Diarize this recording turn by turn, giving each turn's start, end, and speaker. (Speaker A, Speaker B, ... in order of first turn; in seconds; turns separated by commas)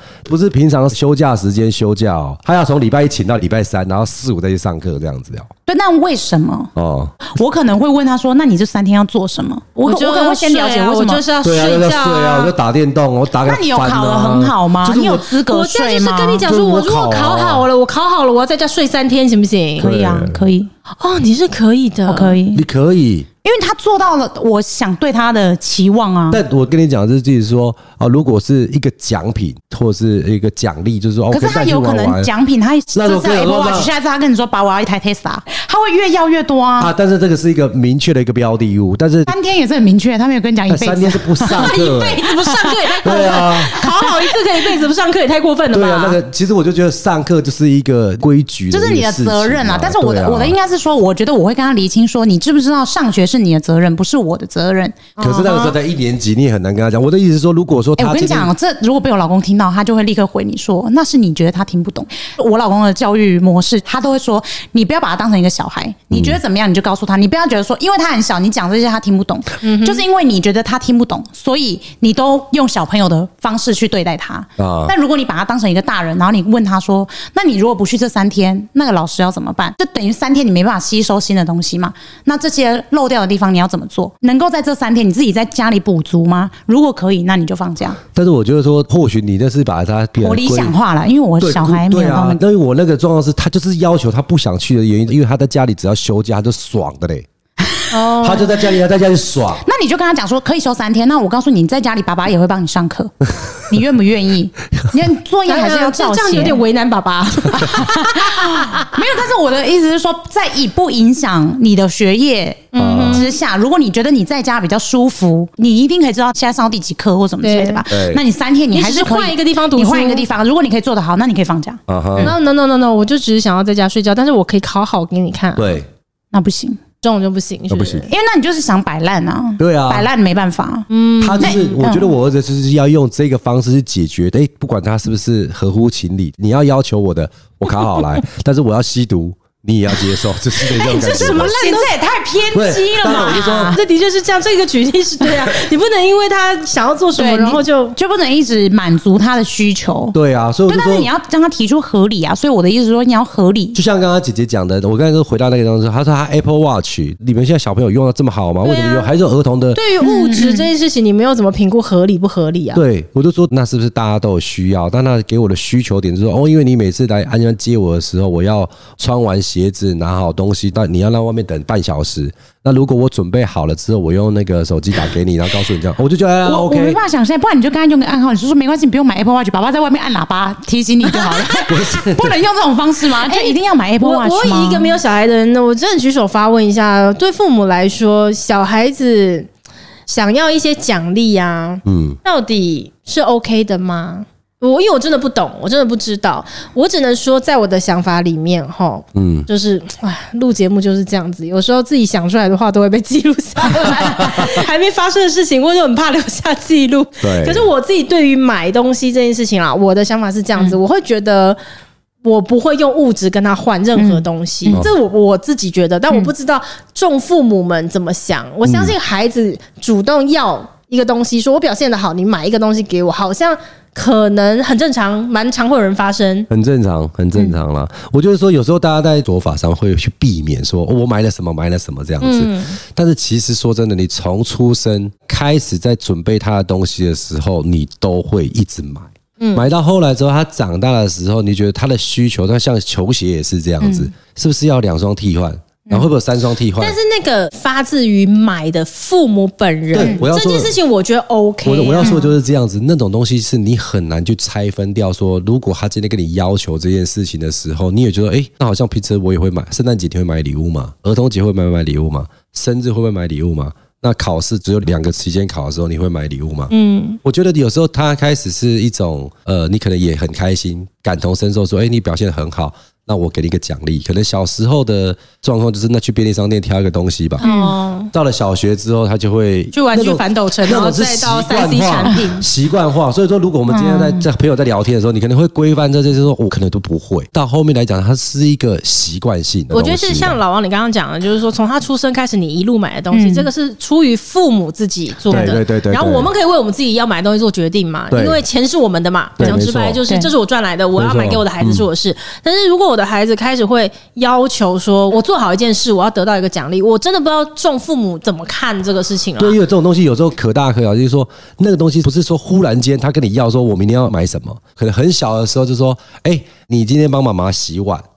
Speaker A: 0.3-5.5, Speaker B: 5.7-6.7, Speaker A: 6.8-7.1, Speaker B: 7.2-11.2, Speaker C: 9.8-12.5, Speaker A: 11.4-15.2, Speaker B: 13.4-16.5, Speaker C: 15.2-19.9, Speaker A: 16.4-17.7, Speaker B: 19.8-20.7, Speaker A: 19.8-20.4, Speaker C: 21.0-22.4, Speaker B: 22.1-22.6, Speaker A: 22.5-23.3, Speaker B: 23.4-26.4, Speaker A: 26.3-32.3, Speaker B: 31.3-36.9, Speaker A: 32.9-33.9, Speaker A: 36.8-39.3, Speaker B: 39.3-44.4, Speaker A: 40.7-42.3, Speaker C: 41.4-46.2, Speaker A: 43.0-43.8, Speaker A: 45.7-50.5, Speaker B: 48.7-55.1, Speaker C: 55.2-55.8, Speaker A: 55.2-58.5, Speaker B: 58.0-88.0, Speaker A: 66.1-66.4, Speaker C: 69.6-70.0, Speaker A: 74.6-74.9, Speaker A: 88.1-90.7, Speaker B: 90.2-92.4, Speaker A: 91.4-97.3, Speaker B: 97.6-98.0, Speaker C: 97.9-98.6, Speaker A: 98.2-99.7, Speaker B: 99.6-106.6, Speaker C: 105.5-108.9, Speaker B: 107.5-122.3, Speaker C: 112.7-113.2, Speaker A: 112.8-113.2, Speaker C: 117.4-117.8, Speaker A: 117.9-118.2, Speaker C: 118.7-120.3, Speaker A: 121.9-122.3, Speaker C: 122.2-125.8, Speaker A: 125.6-125.9, Speaker B: 126.3-126.8, Speaker C: 127.0-128.1, Speaker A: 127.7-128.1, Speaker B: 128.1-130.9, Speaker A: 129.6-130.1, Speaker C: 130.9-131.8, Speaker A: 131.2-141.5, Speaker B: 131.4-132.1, Speaker C: 140.8-142.0, Speaker B: 140.9-143.8, Speaker A: 142.5-143.8, Speaker C: 143.0-147.9, Speaker B: 147.2-150.2, Speaker A: 150.1-151.1, Speaker B: 150.7-153.8, Speaker A: 153.8-159.8, Speaker C: 158.6-159.1, Speaker C: 159.8-162.8, Speaker B: 160.0-160.7, Speaker A: 162.7-177.0, Speaker B: 176.4-185.0, Speaker A: 181.7-182.4, Speaker C: 183.2-189.5, Speaker C: 190.1-211.6, Speaker A: 191.8-192.2, Speaker A: 199.2-199.5, Speaker A: 204.0-204.4, Speaker A: 207.2-207.7, Speaker C: 212.2-226.5, Speaker B: 214.0-214.9, Speaker A: 218.7-218.9, Speaker A: 226.5-247.0, Speaker C: 232.2-232.8, Speaker C: 239.4-239.6, Speaker B: 243.8-244.1, Speaker C: 246.8-252.2, Speaker A: 249.9-250.8, Speaker B: 249.9-250.2, Speaker A: 251.6-266.7, Speaker B: 252.0-252.3, Speaker C: 266.7-267.2, Speaker A: 267.2-277.4, Speaker C: 277.4-278.1, Speaker B: 277.4-277.8, Speaker A: 278.1-290.4, Speaker C: 279.7-282.5, Speaker B: 283.7-284.3, Speaker C: 289.7-309.6, Speaker B: 293.1-293.5, Speaker A: 295.3-296.3, Speaker B: 295.3-295.6, Speaker A: 298.1-298.4, Speaker A: 299.4-300.0, Speaker B: 299.4-300.3, Speaker A: 301.0-301.9, Speaker A: 309.4-318.0